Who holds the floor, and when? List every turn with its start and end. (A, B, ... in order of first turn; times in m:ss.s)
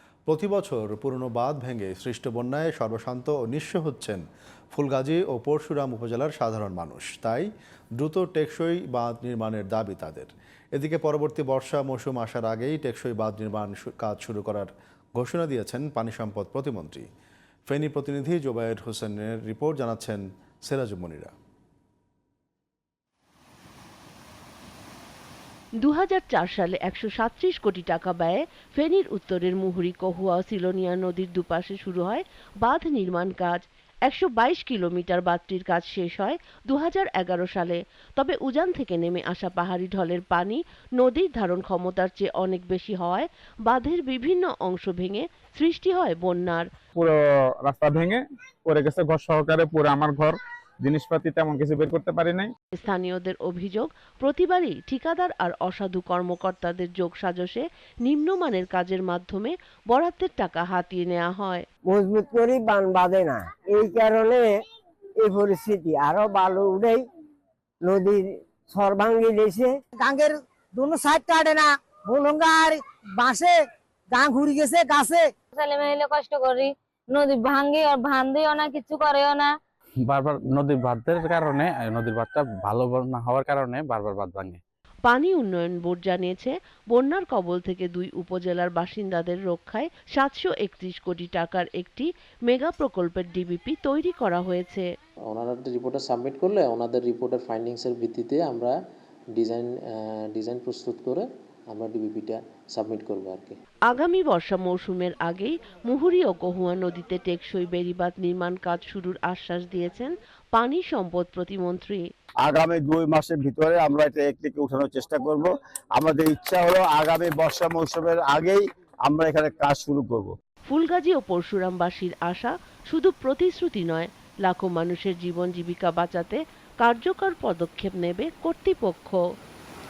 0:00.3-0:17.0 A
0:17.7-0:21.3 A
0:25.8-0:46.7 B
0:47.0-0:52.5 C
0:52.8-1:01.6 B
1:01.9-1:04.5 D
1:05.2-1:07.0 D
1:07.8-1:09.7 D
1:10.0-1:13.5 E
1:14.1-1:15.3 E
1:15.5-1:19.5 F
1:20.1-1:24.6 G
1:25.0-1:34.9 B
1:35.3-1:38.8 H
1:39.3-1:43.6 H
1:43.9-1:52.0 B
1:52.4-2:00.3 I
2:00.7-2:09.2 B